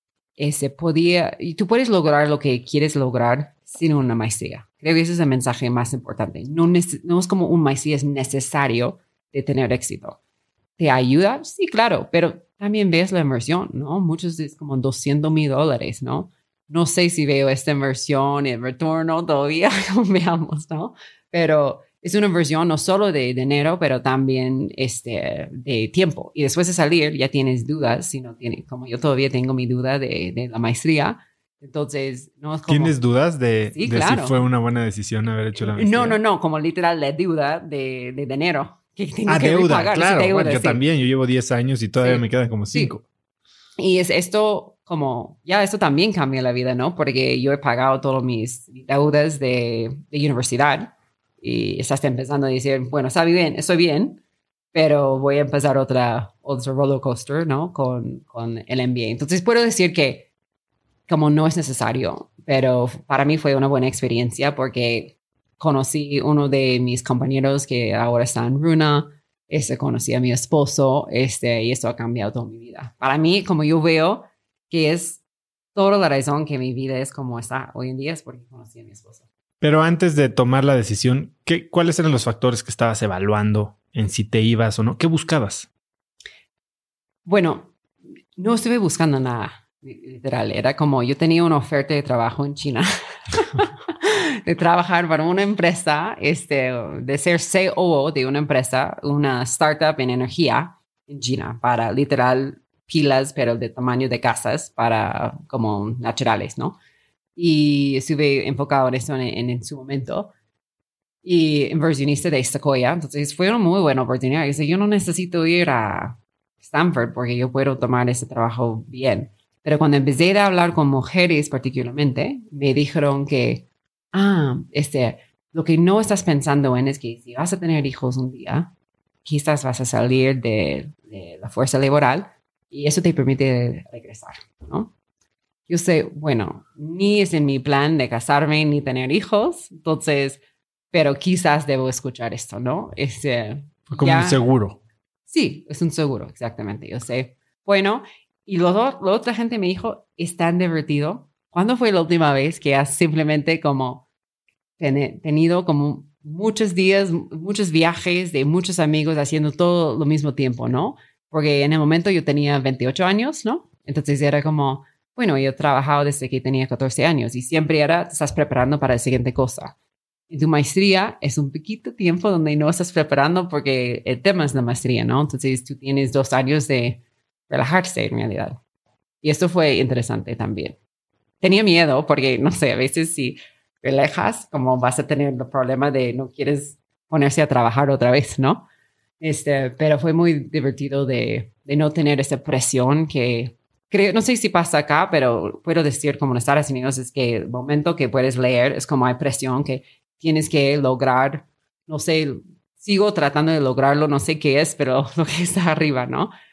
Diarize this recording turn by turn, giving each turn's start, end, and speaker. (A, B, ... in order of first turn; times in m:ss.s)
0:00.4-0:10.2 A
0:10.8-0:33.0 A
0:32.7-0:36.2 B
0:33.7-0:34.3 A
0:35.6-0:40.8 A
0:39.3-0:43.0 B
0:43.8-0:54.2 A
0:54.7-1:00.3 A
1:01.1-1:15.2 A
1:15.7-1:19.2 A
1:19.6-1:25.7 B
1:27.2-1:27.7 A
1:28.4-1:46.8 A
1:47.4-1:50.3 A
1:51.2-2:08.7 A
2:09.2-2:14.9 A
2:15.7-2:20.4 A
2:20.9-2:24.4 A
2:23.9-2:24.8 B
2:25.3-2:34.0 A
2:34.8-2:49.7 A
2:50.3-2:58.6 A
2:59.2-3:00.8 A
3:01.4-3:08.6 A
3:09.2-3:26.3 A